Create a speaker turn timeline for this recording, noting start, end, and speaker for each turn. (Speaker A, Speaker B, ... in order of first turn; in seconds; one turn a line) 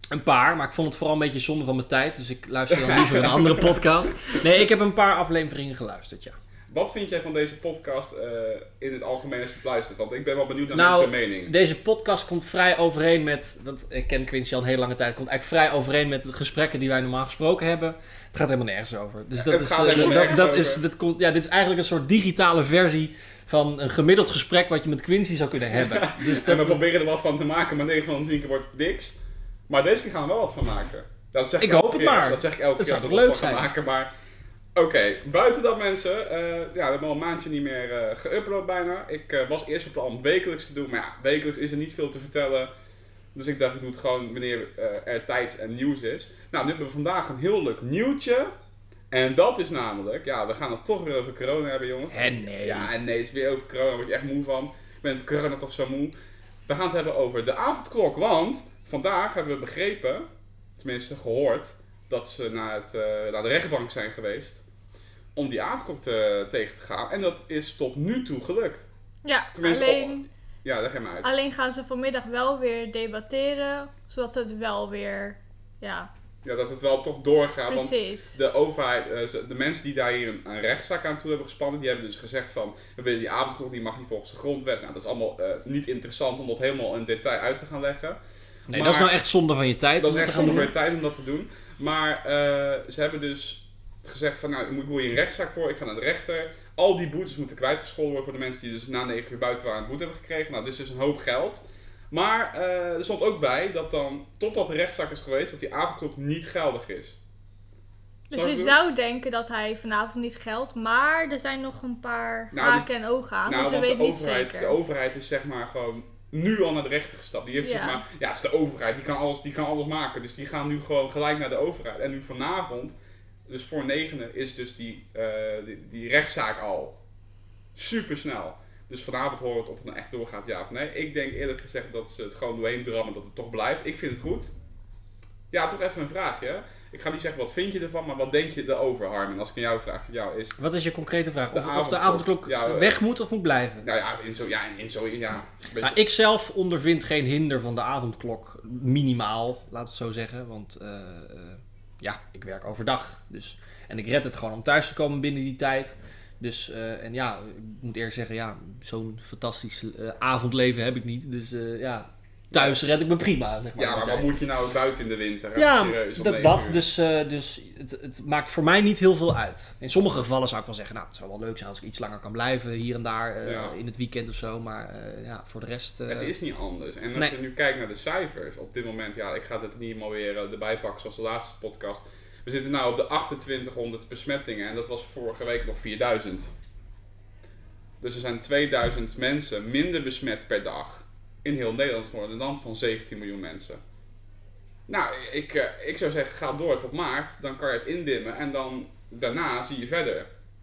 Speaker A: 0.1-6.4
Speaker B: 2.7-3.9
Speaker B: 6.7-11.5
Speaker A: 10.7-26.8
Speaker B: 19.4-20.8
Speaker B: 25.7-29.2
Speaker B: 29.7-34.1
Speaker A: 31.6-33.7
Speaker B: 34.8-42.7
Speaker B: 43.3-48.5
Speaker B: 49.1-56.1
Speaker A: 52.1-52.9
Speaker B: 56.7-60.3
Speaker B: 60.8-64.6
Speaker B: 65.4-68.9
Speaker C: 69.2-70.2
Speaker B: 69.5-71.3
Speaker C: 71.2-76.1
Speaker B: 76.4-88.2
Speaker C: 77.7-78.4
Speaker A: 88.7-90.7
Speaker B: 88.7-89.1
Speaker B: 90.0-107.2
Speaker B: 108.3-108.8
Speaker C: 108.3-114.8
Speaker B: 112.5-112.9
Speaker B: 113.4-123.0
Speaker C: 117.6-118.0
Speaker B: 123.5-127.0
Speaker B: 127.8-134.5
Speaker B: 135.5-140.6
Speaker A: 140.6-143.8
Speaker B: 141.5-143.0
Speaker B: 143.8-146.0
Speaker A: 145.8-164.3
Speaker B: 162.5-162.8
Speaker B: 163.8-166.8
Speaker A: 165.6-176.3
Speaker B: 173.4-173.8
Speaker B: 176.1-186.5
Speaker B: 188.0-193.8
Speaker B: 194.9-200.3